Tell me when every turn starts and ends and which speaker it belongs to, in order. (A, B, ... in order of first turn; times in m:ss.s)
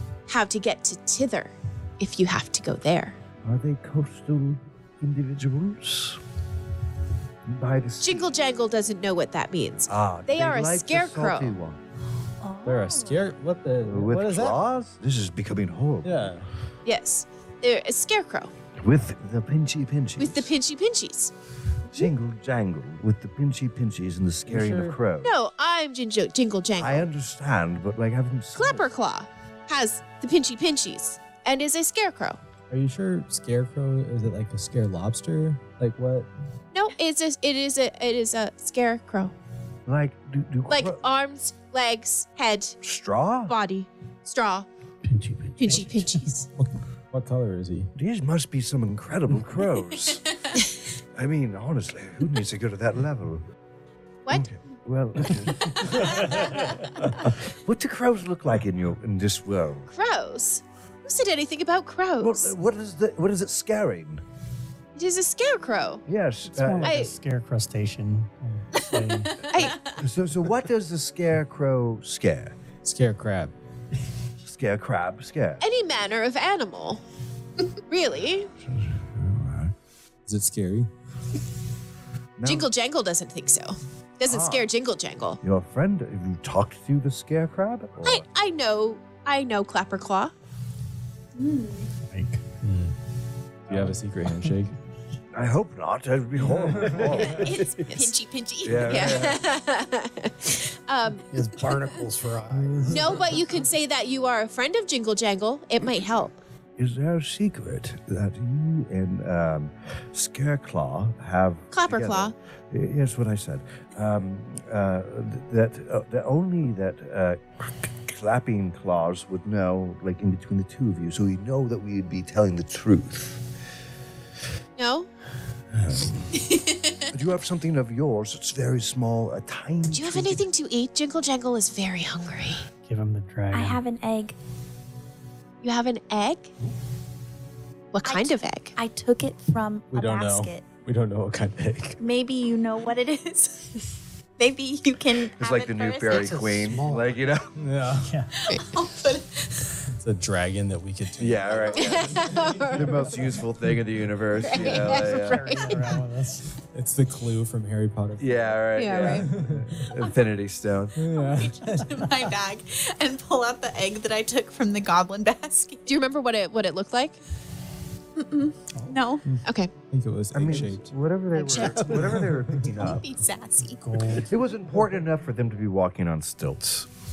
0:00.3-0:03.2 A
0:03.4-0:06.2 B
0:07.5-0:08.3 B
0:08.0-0:11.6 A
0:09.9-0:11.8 B
0:12.4-0:13.2 C
0:12.6-0:14.6 D
0:13.8-0:16.4 B
0:16.0-0:16.5 D
0:16.8-0:18.5 A
0:18.8-0:20.5 B
0:20.2-0:21.3 A
0:21.9-0:25.3 B
0:24.5-0:25.0 D
0:25.2-0:27.1 A
0:26.8-0:28.9 B
0:28.6-0:32.4 A
0:32.7-0:36.3 D
0:36.7-0:39.3 A
0:39.9-0:41.0 B
0:40.7-0:42.8 A
0:42.8-0:43.5 B
0:43.5-0:44.7 A
0:45.0-0:46.0 E
0:45.6-0:46.5 A
0:47.1-0:47.9 D
0:48.0-0:50.2 B
0:51.2-0:53.4 B
0:54.3-0:59.9 B
0:59.9-1:02.5 A
1:02.2-1:04.2 B
1:05.0-1:06.0 A
1:06.1-1:07.0 B
1:06.5-1:09.5 F
1:06.8-1:07.1 A
1:09.5-1:09.8 A
1:09.8-1:12.6 B
1:12.8-1:13.5 D
1:14.4-1:15.6 B
1:15.6-1:17.0 A
1:17.9-1:18.5 A
1:18.6-1:19.7 B
1:20.3-1:20.9 D
1:22.4-1:22.7 B
1:22.4-1:25.4 A
1:24.2-1:24.7 B
1:25.4-1:28.3 B
1:28.0-1:30.3 A
1:31.4-1:31.9 C
1:32.1-1:32.4 F
1:32.6-1:32.9 D
1:33.7-1:34.8 D
1:35.3-1:37.6 B
1:36.4-1:37.4 D
1:37.3-1:39.3 C
1:37.6-1:38.2 A
1:38.6-1:39.4 B
1:38.8-1:41.2 A
1:41.3-1:43.4 E
1:42.9-1:46.4 A
1:46.8-2:03.4 B
1:51.7-1:52.4 A
2:04.8-2:05.1 A
2:05.7-2:06.5 B
2:07.1-2:10.4 B
2:09.9-2:12.7 A
2:12.8-2:13.8 F
2:13.5-2:14.4 C
2:15.6-2:16.5 A
2:17.9-2:18.8 A
2:18.0-2:20.7 C
2:19.9-2:22.0 D
2:22.0-2:23.8 C
2:24.4-2:26.4 C
2:25.4-2:27.6 B
2:26.1-2:27.2 E
2:27.6-2:28.2 D
2:28.1-2:28.3 F
2:28.4-2:29.7 C
2:30.0-2:33.0 D
2:31.2-2:35.8 B
2:31.7-2:32.0 C
2:31.8-2:32.9 A
2:34.4-2:35.8 A
2:34.7-2:36.4 F
2:36.7-2:39.9 D
2:38.2-2:41.0 B
2:38.8-2:39.3 A
2:41.0-2:42.1 D
2:41.1-2:46.0 C
2:45.9-2:47.2 A
2:48.2-2:49.2 C
2:49.3-2:50.9 D
2:49.4-2:49.7 A
2:50.3-2:53.1 B
2:51.4-2:51.9 C
2:51.9-2:52.7 D
2:52.8-2:53.8 C
2:53.8-2:54.3 F
2:54.2-2:56.9 B